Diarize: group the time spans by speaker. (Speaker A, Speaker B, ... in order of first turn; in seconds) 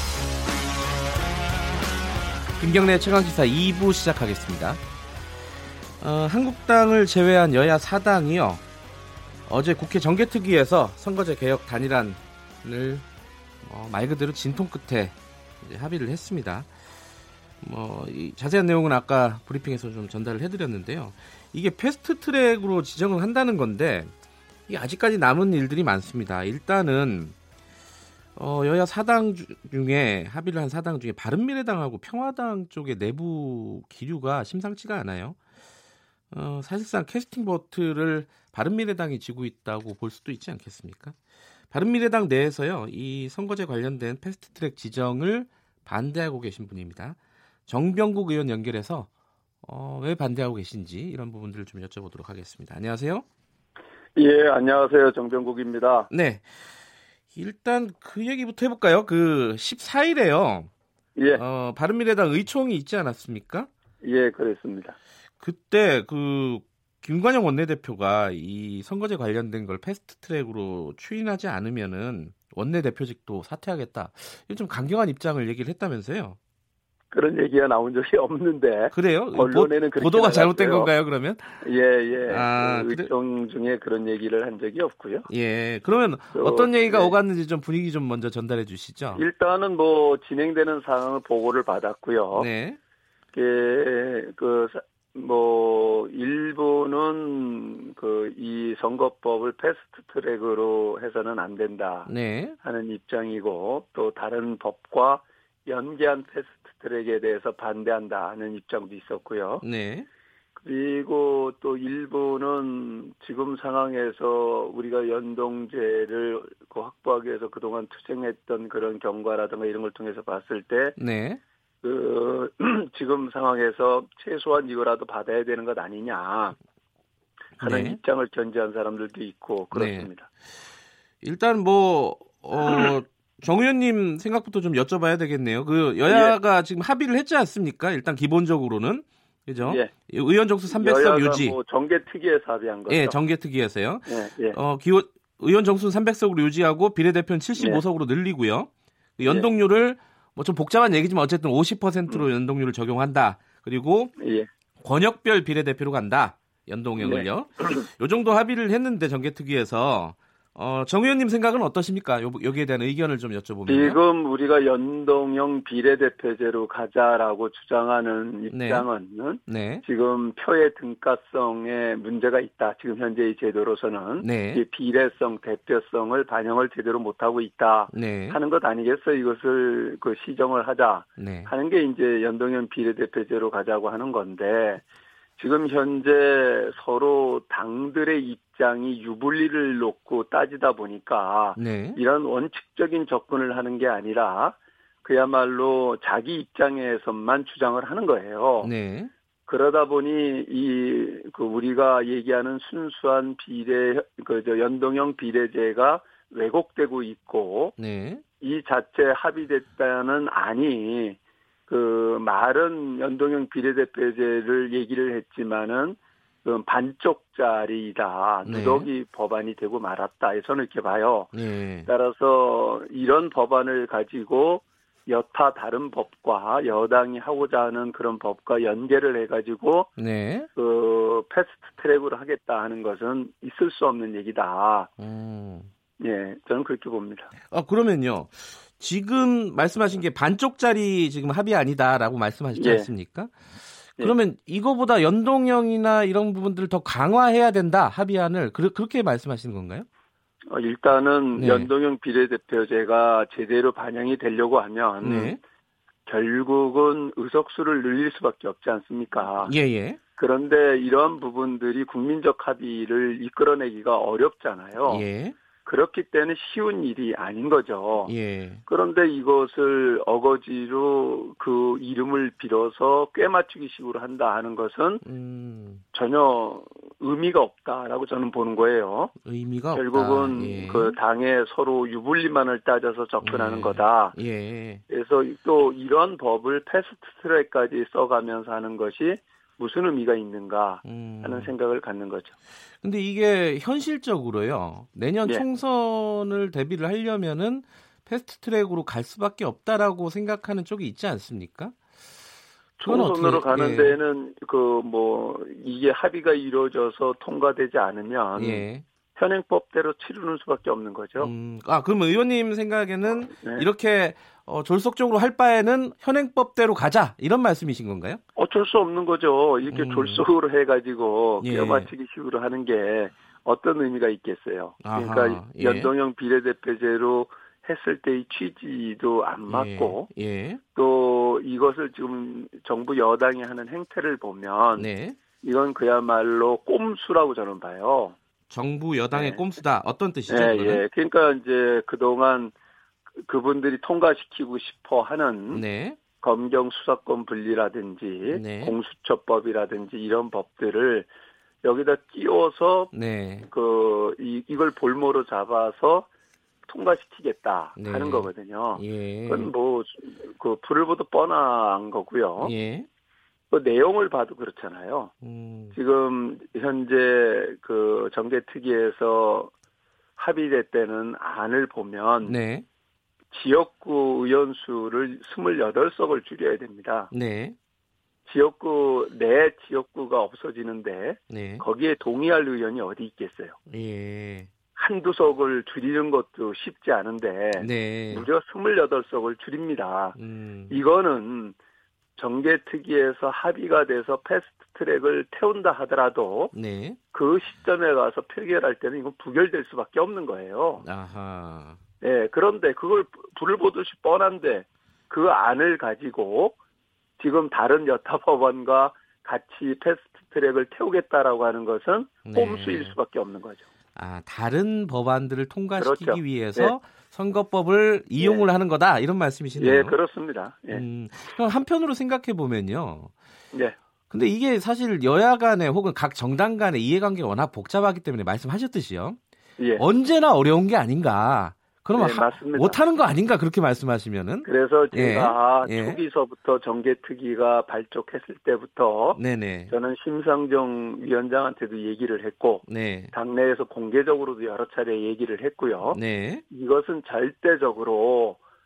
Speaker A: 2.6-4.8, 6.0-8.6, 9.5-13.0, 13.6-16.7, 17.6-24.1, 24.7-27.4, 28.4-35.4, 36.3-41.1, 41.7-49.1, 49.6-53.2, 56.1-56.4, 57.3-60.7, 61.3-63.7, 65.4-76.4, 78.9-81.5, 82.2-83.1, 85.3-89.2, 92.3-92.8, 102.1-102.6, 109.6-110.1, 121.0-121.4, 127.6-128.0, 129.7-130.1, 131.2-141.6, 142.9-154.1, 154.8-164.0, 168.5-168.9, 169.5-169.8, 174.2-174.6, 177.9-178.4, 181.2-181.5, 191.6-192.0, 198.6-199.1, 207.8-208.2, 218.4-218.9, 221.3-221.9, 230.0-230.5, 235.0-235.7, 237.5-243.3, 243.9-249.8, 251.3-251.7, 255.0-255.4, 259.4-260.0, 264.8-265.4, 268.0-268.6, 275.0-275.8, 279.2-281.0, 283.2-284.8, 290.8-291.5, 292.8-301.7, 302.8-304.0, 308.3-308.8, 311.2-318.2, 319.7-320.2, 321.4-321.9, 324.8-325.9, 329.5-330.6, 334.7-335.2, 338.5-340.8, 345.5-346.0, 348.3-348.7, 352.9-353.5, 357.8-359.5, 362.4-362.9, 365.2-365.8, 372.2-372.6, 377.1-377.5, 381.3-381.6, 383.7-384.5, 387.5-388.3, 390.1-390.7, 396.5-397.0, 400.8-401.8, 412.2-412.9, 413.9-420.0, 420.7-423.1, 424.1-429.2, 429.8-436.0, 439.1-439.7, 442.7-443.1, 445.9-446.4
Speaker B: 54.1-56.1, 61.1-61.4, 64.0-65.0, 77.1-80.9, 81.6-85.3, 86.3-87.2, 89.1-92.5, 93.3-109.6, 110.6-121.0, 121.8-126.6, 127.6-130.3, 136.1-136.4, 139.6-139.9, 140.7-143.2, 144.1-144.6, 147.6-147.8, 149.2-149.5, 154.2-154.5, 157.0-157.8, 163.7-184.8, 185.4-198.7, 199.5-207.7, 208.4-221.3, 221.8-229.9, 230.5-234.9, 236.0-237.3, 242.5-242.9, 250.5-255.4, 256.1-259.5, 260.1-265.0, 265.6-268.1, 268.6-275.0, 275.9-279.1, 279.7-284.1, 284.9-292.3, 302.8-311.3, 313.3-313.7, 318.3-330.1, 330.7-334.9, 335.4-338.1, 339.1-339.4, 340.3-342.5, 343.2-345.6, 346.2-351.1, 351.6-352.9, 353.5-356.1, 356.6-362.5, 363.5-365.1, 365.7-369.5, 370.2-372.4, 373.3-377.1, 378.2-383.6, 384.7-390.2, 390.7-391.6, 392.1-396.5, 397.1-400.9, 402.0-406.5, 407.2-413.6, 415.8-416.7, 418.2-418.5, 419.6-420.8, 429.6-429.8, 431.9-432.8, 434.4-448.4